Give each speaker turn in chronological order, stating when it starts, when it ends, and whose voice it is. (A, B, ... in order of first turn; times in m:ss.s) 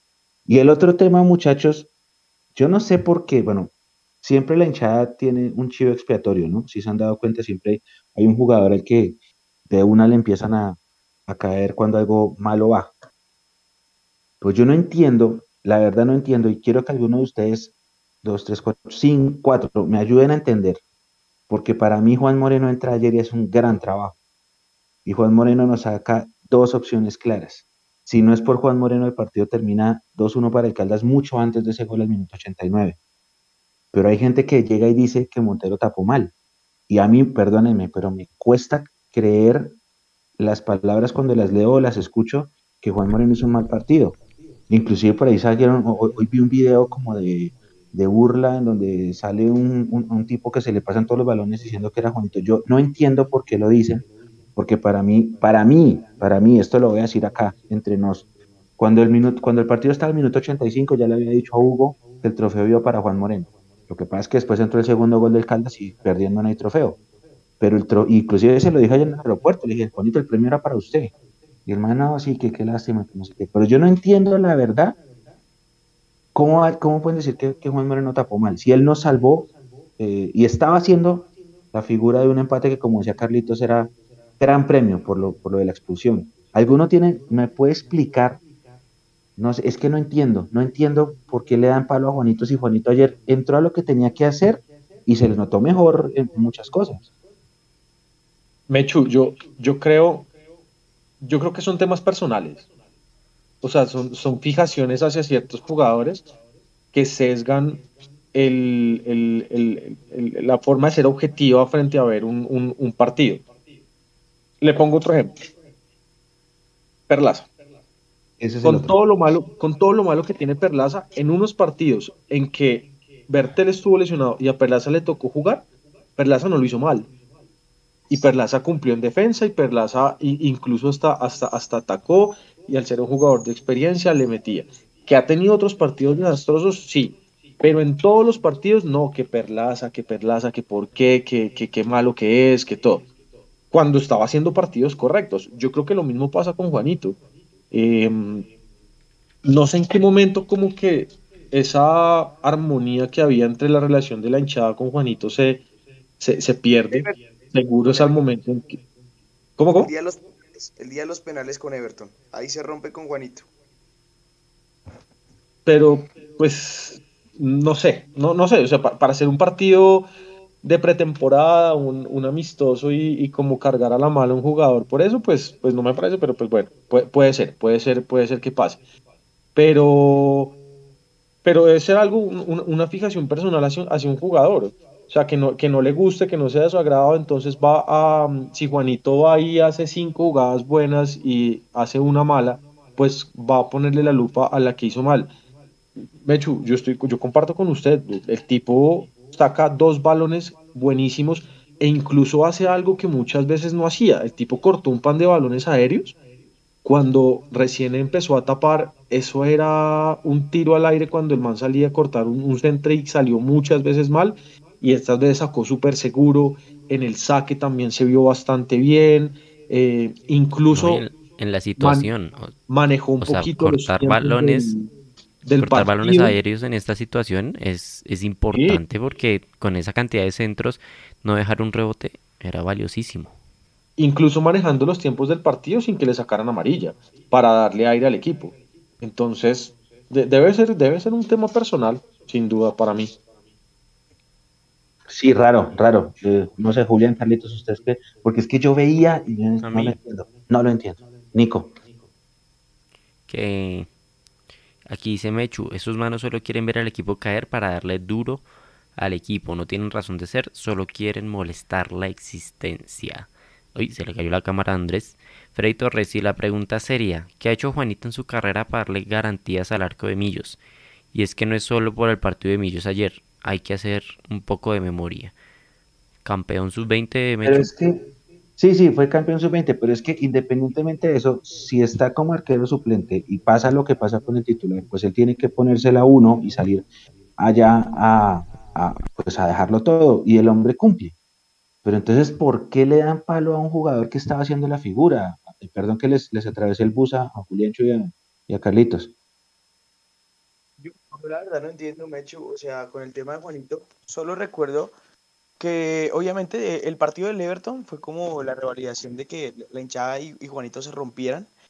0:00.5-0:01.9 A
0:02.6-0:09.2 A
0:09.7-0:12.9 A
0:14.4-0:20.8 A
0:21.5-0:24.2 A
0:25.0-0:33.0 A
0:33.9-0:36.3 A
0:36.9-0:39.8 A
0:40.4-0:44.2 A
0:44.7-0:58.3 A
0:58.8-1:07.0 A
1:07.6-1:11.1 A
1:11.7-1:15.0 A
1:16.3-1:28.4 A
1:29.4-1:37.1 A
1:38.7-1:40.3 B
1:41.2-1:42.7 B
1:43.6-1:46.3 B
1:46.9-1:53.5 B
1:54.6-1:55.4 B
1:57.1-1:57.5 B
1:58.4-1:58.9 A
1:58.6-2:07.1 B
2:08.1-2:23.1 B
2:23.7-2:27.2 B
2:27.7-2:28.5 B
2:29.4-2:35.6 B
2:36.2-2:38.8 B
2:36.9-2:37.2 C
2:37.9-2:38.2 C
2:39.6-2:39.9 B
2:39.8-2:43.5 C
2:45.7-2:50.1 B
2:50.6-2:58.8 B
2:59.6-3:00.6 B
3:01.4-3:15.3 B
3:16.2-3:26.2 B
3:26.8-3:41.1 B
3:40.7-3:42.6 D
3:41.8-3:42.1 B
3:42.7-3:44.9 B
3:43.2-3:44.7 D
3:45.4-3:46.4 B
3:45.6-3:53.3 D
3:48.5-3:48.8 B
3:54.0-4:03.1 B
4:05.1-4:11.7 A
4:09.6-4:10.0 D
4:13.3-4:13.9 D
4:14.9-4:18.4 D
4:19.0-4:30.6 D
4:31.1-4:35.3 D
4:36.2-4:37.7 D
4:37.4-4:38.1 A
4:38.6-4:46.9 A
4:47.4-4:51.2 A
4:51.8-4:59.1 A
5:00.8-5:04.9 C
5:05.6-5:11.5 C